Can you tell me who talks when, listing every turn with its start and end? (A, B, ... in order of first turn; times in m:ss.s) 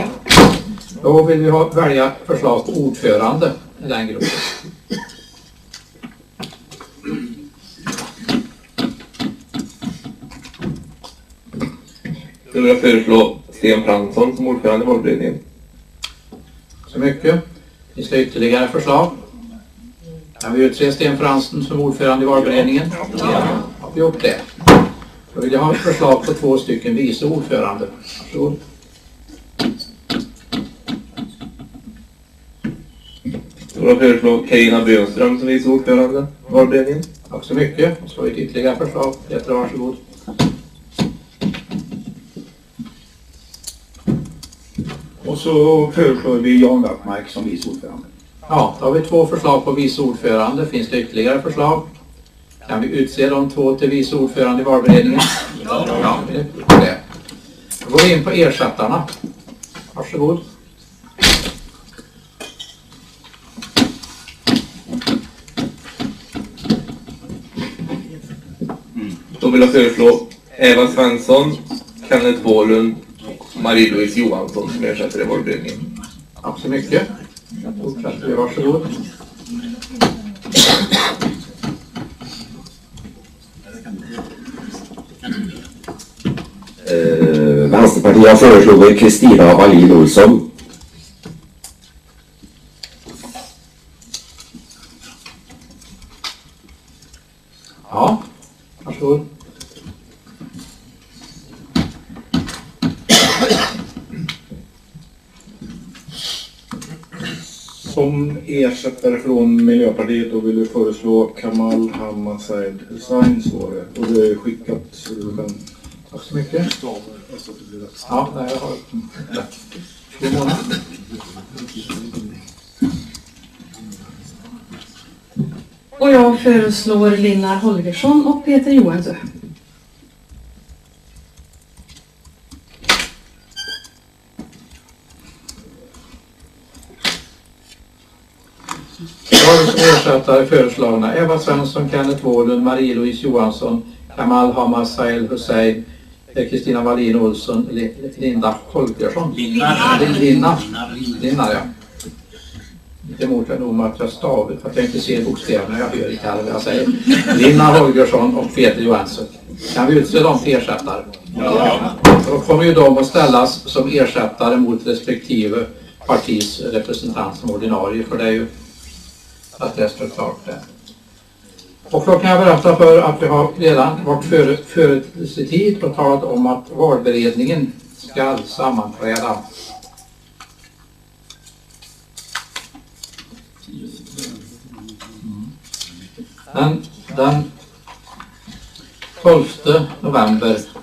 0:01.0-0:04.4 A
0:12.5-0:15.4 B
0:16.9-0:17.4 A
0:18.0-0:19.2 A
0:20.4-0:24.5 A
0:25.3-0:28.6 A
0:33.7-0:37.0 B
0:37.3-0:40.0 A
0:45.2-0:48.0 C
0:48.5-0:51.8 A
0:52.7-0:57.0 A
0:57.8-0:59.1 A
0:59.9-1:00.4 A
1:09.3-1:13.0 B
1:13.5-1:15.9 B
1:16.4-1:17.1 A
1:17.8-1:18.9 A
1:26.8-1:30.5 D
1:37.9-1:38.2 A
1:38.8-1:39.2 A
1:47.8-1:55.6 C
1:56.1-1:56.7 A
1:58.1-1:59.5 A
2:00.2-2:00.6 A
2:06.0-2:09.2 E
2:19.3-2:25.8 A
2:26.3-2:31.7 A
2:33.1-2:48.5 A
2:49.6-2:50.6 A
2:51.9-2:59.4 A
3:06.5-3:07.5 A
3:09.2-3:10.6 A